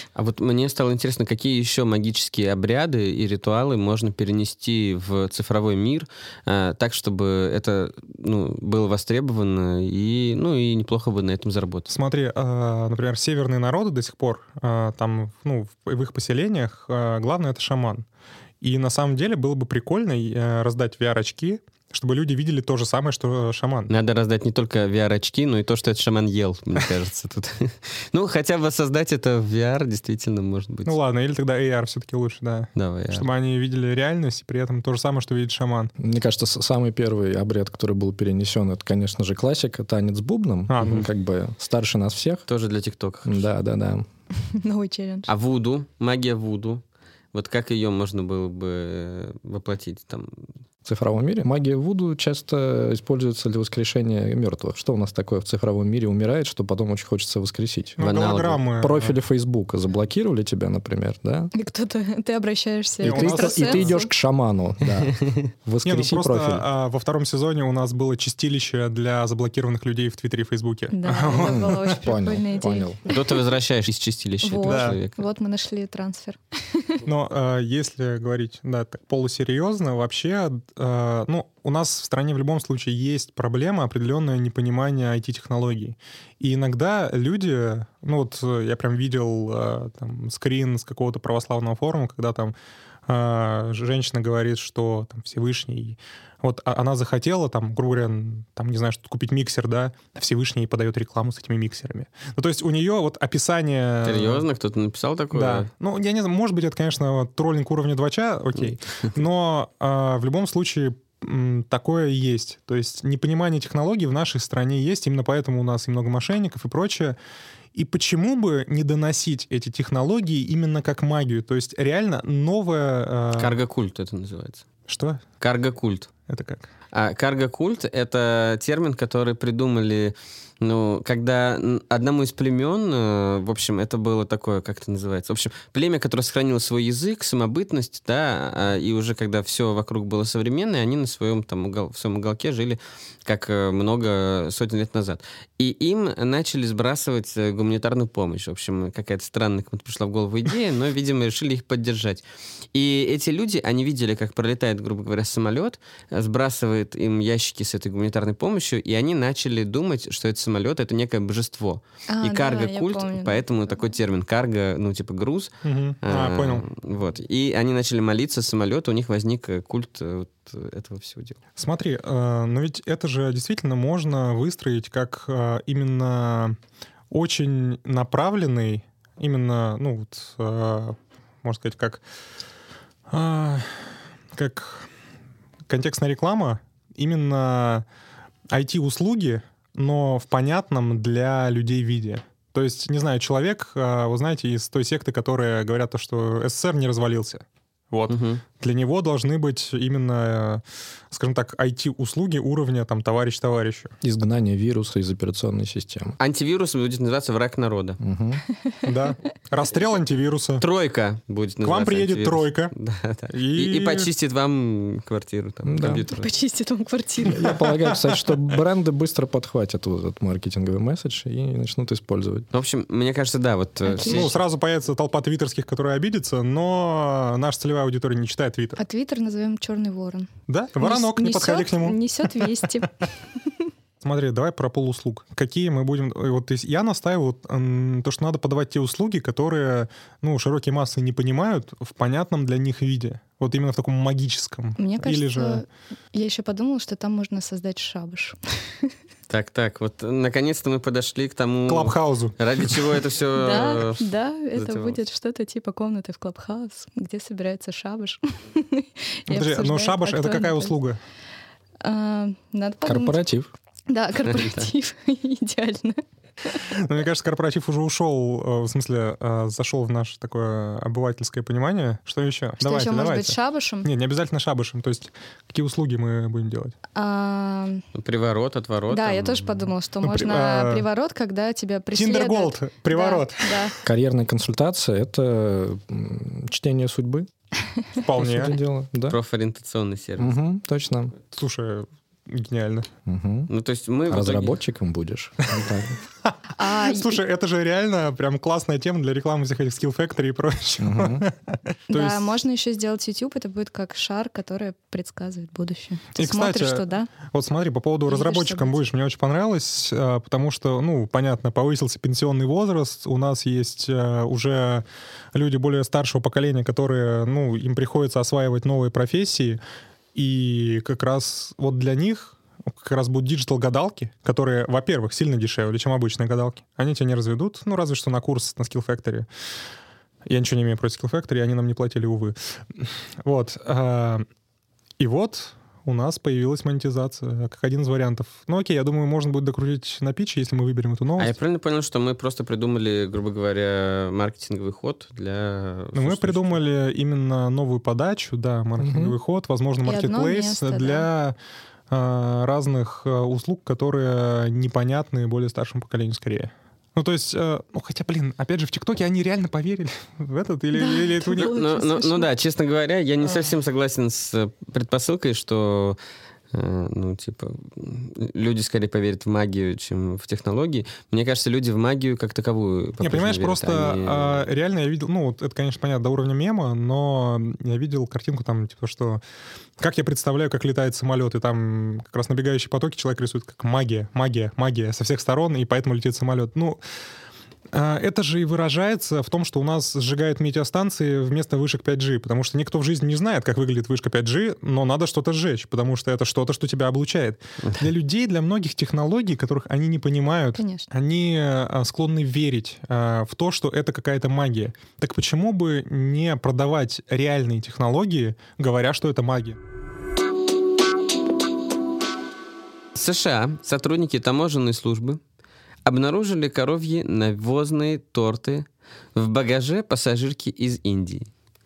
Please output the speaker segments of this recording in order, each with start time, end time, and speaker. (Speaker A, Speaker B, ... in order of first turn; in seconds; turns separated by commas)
Speaker A: 0.1-11.9, Speaker B: 11.9-18.1, Speaker B: 18.6-23.9, Speaker A: 23.9-31.0, Speaker B: 30.9-35.9, Speaker A: 32.8-33.2, Speaker C: 36.0-42.4, Speaker B: 40.7-41.1, Speaker A: 42.5-43.5, Speaker C: 43.2-44.1, Speaker D: 44.4-45.3, Speaker A: 45.3-46.8, Speaker A: 47.3-50.4, Speaker C: 50.9-58.0, Speaker B: 58.0-59.2, Speaker A: 58.0-58.6, Speaker C: 58.7-61.5, Speaker D: 61.5-64.1, Speaker B: 63.0-64.0, Speaker C: 63.0-66.7, Speaker B: 65.8-72.0, Speaker D: 70.9-73.2, Speaker C: 71.8-73.0, Speaker A: 73.1-75.2, Speaker D: 74.4-77.0, Speaker B: 74.6-75.0, Speaker B: 77.0-92.5, Speaker B: 93.1-104.4, Speaker A: 104.0-105.7, Speaker B: 105.3-117.2, Speaker B: 117.7-123.6, Speaker A: 123.4-124.7, Speaker B: 124.9-125.2, Speaker A: 125.4-126.1, Speaker B: 126.3-126.7, Speaker A: 126.9-171.4, Speaker D: 162.1-163.5, Speaker B: 165.6-166.7, Speaker B: 171.6-176.6, Speaker B: 177.1-182.0, Speaker B: 183.1-183.8, Speaker B: 184.3-184.9, Speaker B: 185.7-187.8, Speaker B: 188.5-203.9, Speaker A: 198.1-198.4, Speaker C: 204.0-206.2, Speaker A: 206.2-208.0, Speaker C: 208.0-208.4, Speaker B: 208.8-210.6, Speaker A: 210.6-216.3, Speaker B: 211.6-212.7, Speaker B: 213.3-214.1, Speaker C: 215.7-216.1, Speaker D: 216.1-217.5, Speaker C: 217.3-222.4, Speaker B: 217.7-218.3, Speaker A: 222.5-224.4, Speaker D: 223.8-224.3, Speaker B: 224.0-228.8, Speaker D: 228.8-232.9, Speaker B: 230.5-232.5, Speaker B: 234.0-245.6, Speaker D: 244.8-248.9, Speaker A: 249.3-255.0, Speaker B: 251.7-252.8, Speaker D: 253.3-260.8, Speaker B: 259.3-261.0, Speaker D: 261.8-263.2, Speaker C: 262.8-263.5, Speaker D: 263.9-266.0, Speaker A: 264.3-264.7, Speaker B: 266.6-276.8, Speaker D: 272.6-273.9, Speaker D: 276.9-277.8, Speaker A: 277.9-279.7, Speaker D: 278.9-283.7, Speaker B: 280.0-280.9, Speaker B: 281.9-283.7, Speaker C: 283.8-287.3, Speaker B: 288.0-288.6, Speaker C: 288.2-289.2, Speaker A: 289.1-290.4, Speaker C: 290.2-291.1, Speaker B: 291.3-292.9, Speaker C: 293.1-293.5, Speaker A: 293.5-294.6, Speaker C: 294.1-296.0, Speaker B: 296.2-302.3, Speaker D: 296.6-297.2, Speaker C: 300.8-301.3, Speaker D: 301.9-307.1, Speaker B: 306.2-319.6, Speaker D: 308.1-308.8, Speaker B: 320.1-329.3, Speaker B: 330.3-334.2, Speaker B: 335.0-341.3, Speaker A: 341.2-346.6, Speaker B: 345.9-351.4, Speaker C: 348.8-349.2, Speaker D: 349.8-351.1, Speaker B: 351.9-361.5, Speaker D: 360.7-362.3, Speaker A: 361.4-366.0, Speaker A: 366.5-374.5, Speaker B: 373.0-379.2, Speaker B: 379.8-386.8, Speaker B: 387.7-409.6, Speaker D: 400.6-400.9, Speaker A: 412.9-415.2, Speaker A: 415.9-421.3